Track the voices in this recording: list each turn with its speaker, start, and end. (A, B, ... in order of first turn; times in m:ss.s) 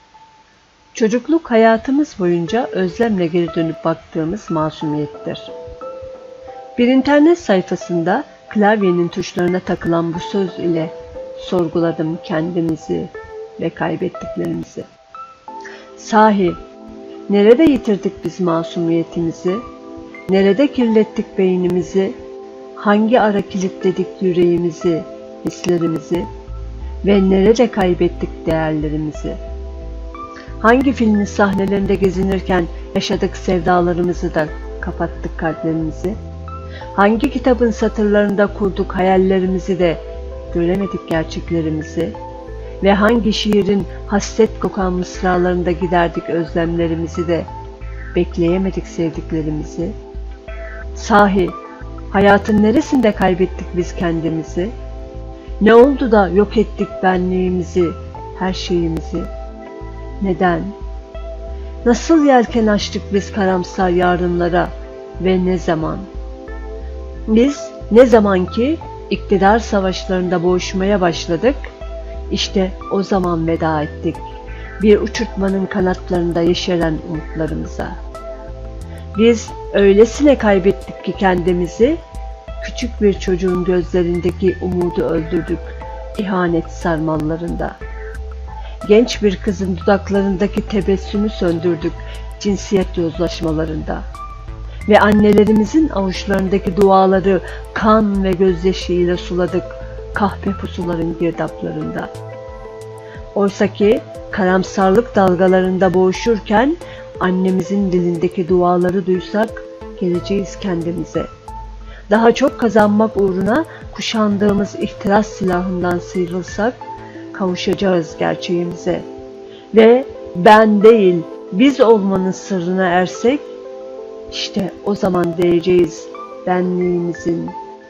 0:00.9-0:05.5 A
0:06.8-0:14.9 A
0:16.0-0:16.6 A
0:17.3-0:19.6 A
0:20.3-0:22.2 A
0:22.8-0:26.3 A
0:27.0-0:29.4 A
0:30.6-0:36.2 A
0:36.9-0:40.0 A
0:40.5-0:42.1 A
0:42.8-0:47.5 A
0:48.1-0:49.9 A
0:50.9-0:51.6 A
0:52.1-0:54.7 A
0:55.6-0:59.3 A
1:00.2-1:00.7 A
1:01.8-1:06.1 A
1:07.3-1:11.7 A
1:12.3-1:14.2 A
1:14.8-1:18.0 A
1:19.1-1:22.0 A
1:22.6-1:27.8 A
1:28.8-1:34.0 A
1:34.9-1:42.1 A
1:43.3-1:51.3 A
1:52.1-1:56.8 A
1:57.3-1:59.0 A
1:59.7-2:03.4 A
2:04.3-2:07.6 A